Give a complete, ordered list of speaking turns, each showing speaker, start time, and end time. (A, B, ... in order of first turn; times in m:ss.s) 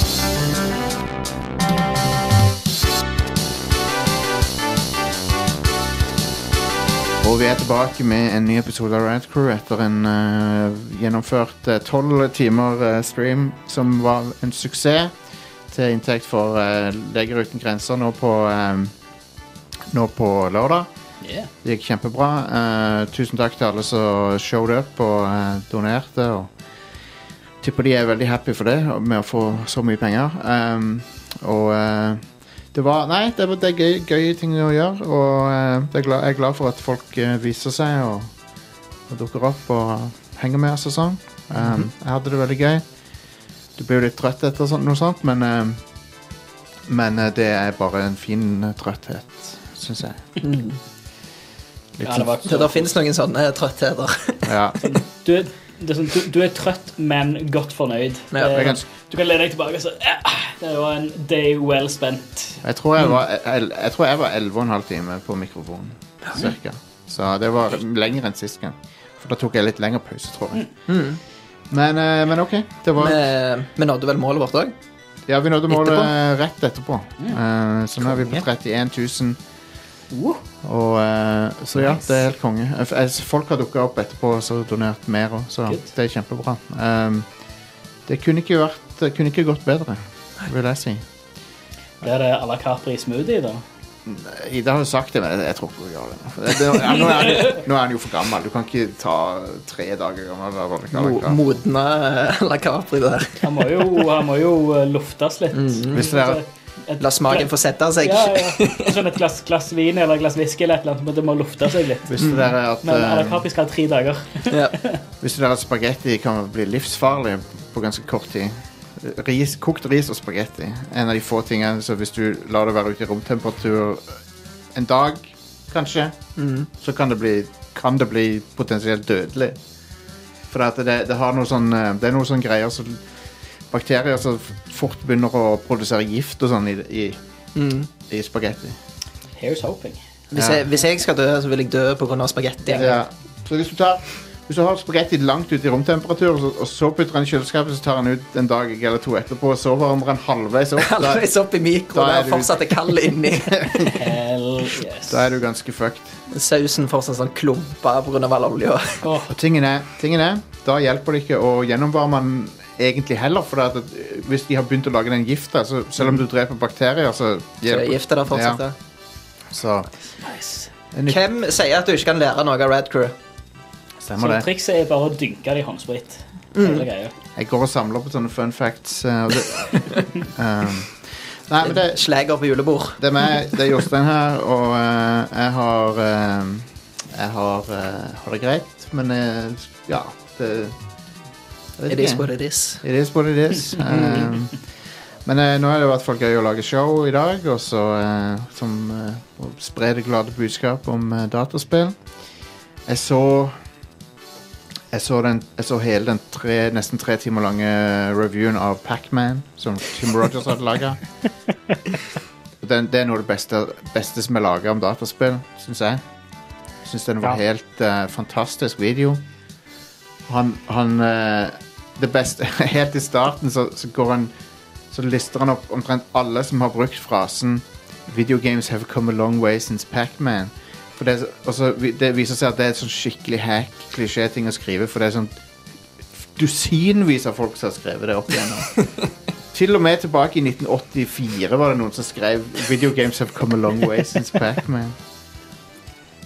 0:07.2-0:15.2 A
0:15.7-0:19.0 A
0:19.9-0:20.9 A
0:21.2-0:21.5 B
0:21.6-0:26.5 A
0:27.6-0:38.3 A
0:39.1-0:42.8 A
0:41.6-0:41.9 C
0:43.8-0:45.8 A
0:46.9-0:50.2 A
0:50.4-0:50.8 C
0:52.0-0:52.4 A
0:52.0-0:52.9 B
0:52.4-0:54.6 C
0:54.5-0:54.8 A
0:54.8-1:02.6 B
0:58.4-0:58.8 A
1:02.6-1:10.7 A
1:10.9-1:11.2 C
1:11.7-1:13.2 A
1:13.0-1:14.7 C
1:15.3-1:19.4 A
1:15.7-1:16.1 C
1:18.1-1:18.4 C
1:20.1-1:20.4 B
1:20.6-1:27.3 A
1:28.1-1:31.0 A
1:32.0-1:33.6 B
1:34.0-1:41.4 A
1:36.9-1:37.6 B
1:40.9-1:43.4 C
1:43.4-1:52.1 B
1:45.6-1:46.0 C
1:45.9-1:46.4 A
1:47.0-1:48.9 C
1:52.1-1:53.4 A
1:52.8-1:55.0 B
1:54.5-1:54.8 C
1:55.2-2:04.2 A
2:04.7-2:06.2 A
2:06.4-2:06.7 C
2:06.7-2:09.6 A
2:10.5-2:13.0 A
2:13.7-2:17.2 A
2:17.6-2:17.9 C
2:18.1-2:18.8 A
2:19.4-2:20.0 B
2:20.3-2:23.0 C
2:20.4-2:20.7 A
2:22.7-2:31.3 A
2:30.8-2:33.9 C
2:31.9-2:32.8 A
2:33.5-2:33.9 A
2:33.9-2:35.2 B
2:35.1-2:36.2 A
2:36.3-2:39.0 C
2:39.0-2:39.3 B
2:39.3-2:48.6 A
2:47.6-2:48.8 C
2:49.5-2:49.9 A
2:50.2-2:50.7 B
2:50.9-2:51.2 A
2:51.1-2:53.1 C
2:54.0-2:54.5 A
2:54.2-2:57.1 B
2:56.6-2:56.9 C
2:57.4-3:02.0 A
3:01.6-3:03.4 C
3:03.0-3:10.8 A
3:11.8-3:12.3 A
3:11.9-3:12.8 C
3:12.8-3:14.6 A
3:13.9-3:14.3 C
3:15.2-3:22.0 A
3:22.8-3:23.6 A
3:24.9-3:31.0 A
3:32.6-3:36.0 A
3:36.8-3:39.2 A
3:40.3-3:44.3 A
3:44.9-3:55.4 A
3:56.3-3:58.8 A
3:59.5-4:05.0 A